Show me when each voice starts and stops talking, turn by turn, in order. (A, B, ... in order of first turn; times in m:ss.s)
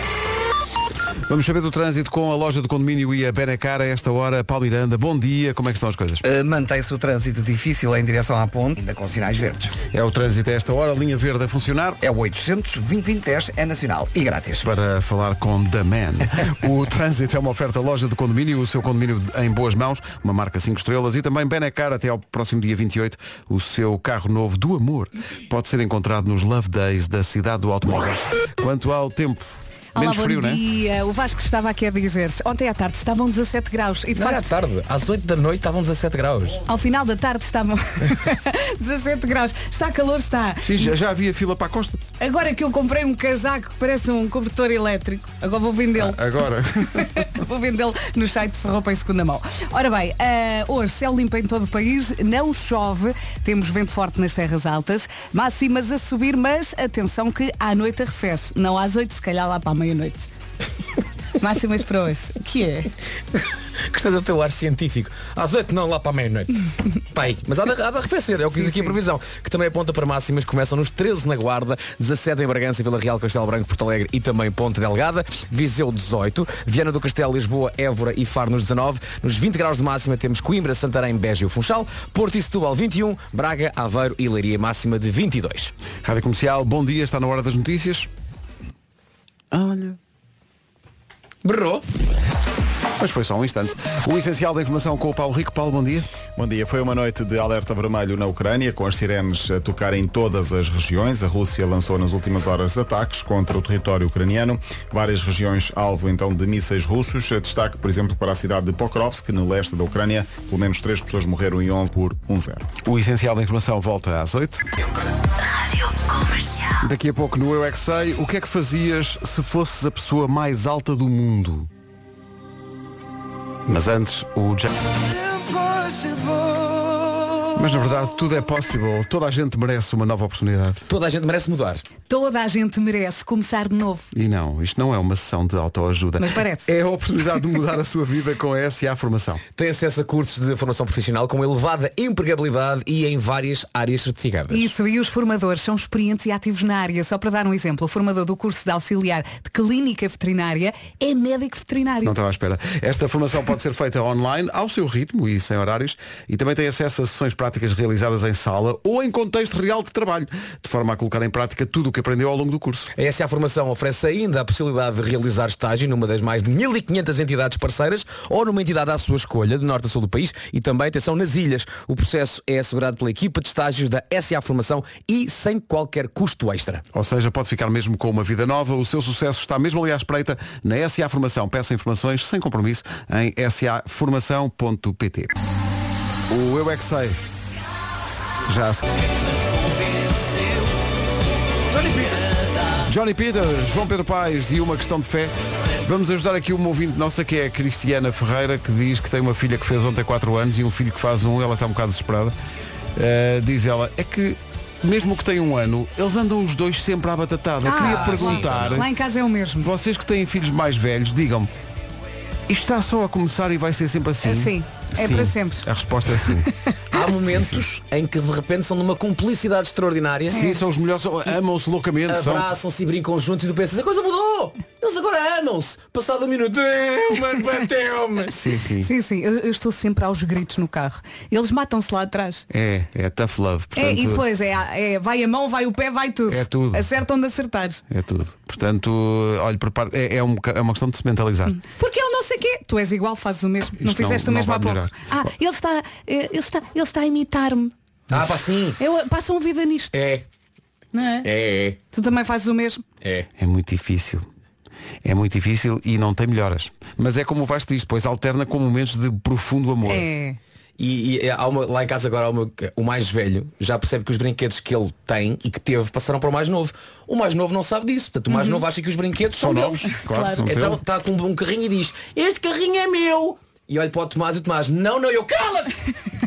0:01.3-0:06.2 A
0:06.2-0:09.8 B
0:09.9-0:12.0 A
0:12.0-0:14.6 B
0:14.6-0:30.6 A
0:29.9-0:34.5 C
0:34.2-0:36.6 D
0:36.6-0:40.9 C
0:40.6-0:42.0 A
0:42.2-0:46.2 C
0:45.9-0:47.2 A
0:46.9-1:00.3 C
1:01.4-1:02.9 C
1:03.9-1:25.7 D
1:08.6-1:09.0 C
1:26.0-1:28.1 A
1:29.5-1:30.0 A
1:31.4-1:31.8 D
1:33.0-1:36.1 A
1:36.4-1:52.7 E
1:52.8-1:54.6 A
1:56.8-2:01.7 A
2:03.6-2:04.7 A
2:07.5-2:10.8 A
2:10.9-2:11.8 D
2:12.1-2:14.1 C
2:14.1-2:19.4 A
2:16.2-2:16.7 C
2:19.6-2:24.7 D
2:24.5-2:32.2 C
2:32.0-2:42.9 A
2:42.9-2:56.8 D
2:56.9-3:05.3 A
3:06.3-3:07.2 A
3:08.4-3:08.8 A
3:11.8-3:12.1 D
3:12.8-3:22.3 A
3:22.9-3:28.9 A
3:27.6-3:29.7 C
3:27.8-3:28.8 D
3:29.6-3:31.5 A
3:32.5-3:36.5 A
3:34.2-3:35.7 C
3:36.9-3:40.4 D
3:37.2-3:37.6 A
3:40.3-3:42.5 A
3:40.3-3:40.6 C
3:42.1-3:48.4 D
3:48.3-3:48.9 A
3:48.8-3:52.4 C
3:52.5-3:54.2 A
3:53.8-3:57.8 C
3:56.3-3:56.9 A
3:57.9-4:01.6 A
4:01.5-4:07.7 C
4:03.8-4:05.2 A
4:08.1-4:08.8 D
4:08.8-4:10.0 C
4:09.9-4:10.2 D
4:10.9-4:11.3 C
4:11.2-4:11.8 D
4:11.9-4:12.8 C
4:13.0-4:13.3 D
4:13.4-4:14.2 A
4:15.0-4:20.1 A
4:19.8-4:20.4 C
4:20.8-4:35.7 D
4:28.3-4:28.6 C
4:29.3-4:30.8 A
4:29.9-4:30.4 C